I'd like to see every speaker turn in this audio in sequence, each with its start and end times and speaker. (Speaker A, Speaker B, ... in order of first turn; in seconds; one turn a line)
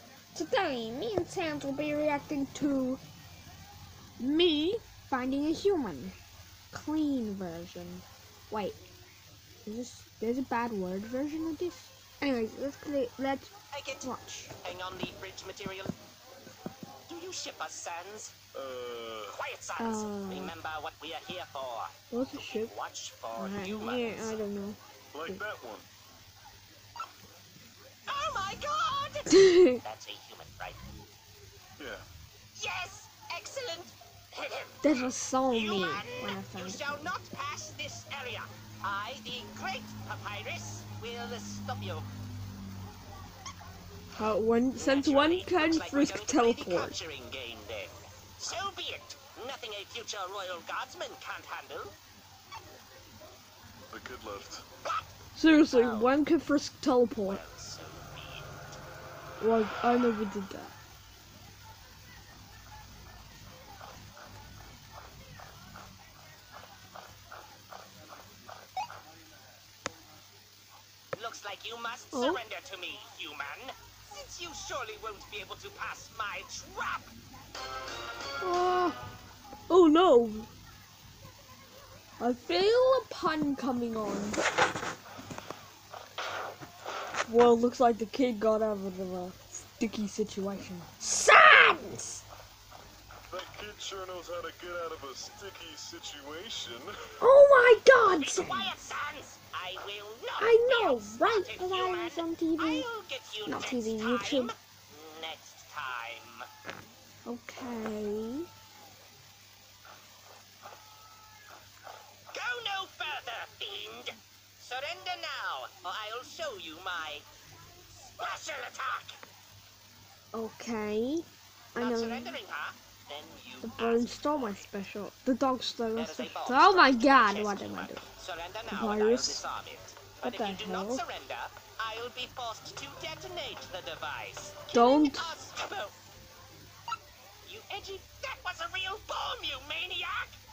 Speaker A: 0.3-3.0
Speaker A: 4.2-6.2
Speaker A: 6.7-8.8
Speaker A: 9.7-13.5
Speaker B: 13.7-15.9
Speaker A: 14.0-14.5
Speaker B: 17.1-18.3
Speaker C: 18.6-19.4
Speaker B: 19.3-24.4
Speaker A: 19.8-20.5
Speaker A: 22.1-22.8
Speaker A: 23.4-25.4
Speaker C: 25.1-25.9
Speaker B: 28.1-30.8
Speaker A: 29.3-29.8
Speaker C: 31.8-32.1
Speaker B: 32.5-42.1
Speaker A: 34.8-37.1
Speaker A: 44.2-47.0
Speaker B: 44.8-51.9
Speaker C: 53.9-54.7
Speaker B: 54.8-55.1
Speaker A: 55.4-57.4
Speaker B: 55.7-56.1
Speaker B: 57.2-58.5
Speaker A: 59.4-60.8
Speaker B: 71.1-77.1
Speaker A: 72.1-72.4
Speaker A: 78.4-79.0
Speaker A: 79.7-80.5
Speaker A: 82.2-84.4
Speaker A: 87.3-92.2
Speaker C: 93.3-96.9
Speaker A: 97.2-98.7
Speaker B: 98.0-106.5
Speaker A: 100.4-102.9
Speaker A: 103.5-104.5
Speaker A: 107.3-108.5
Speaker B: 112.3-117.3
Speaker B: 118.2-119.2
Speaker A: 120.3-122.4
Speaker B: 121.8-124.6
Speaker A: 123.6-128.1
Speaker B: 126.0-135.9
Speaker A: 128.7-129.4
Speaker A: 130.2-131.0
Speaker A: 134.7-135.3
Speaker B: 137.4-140.4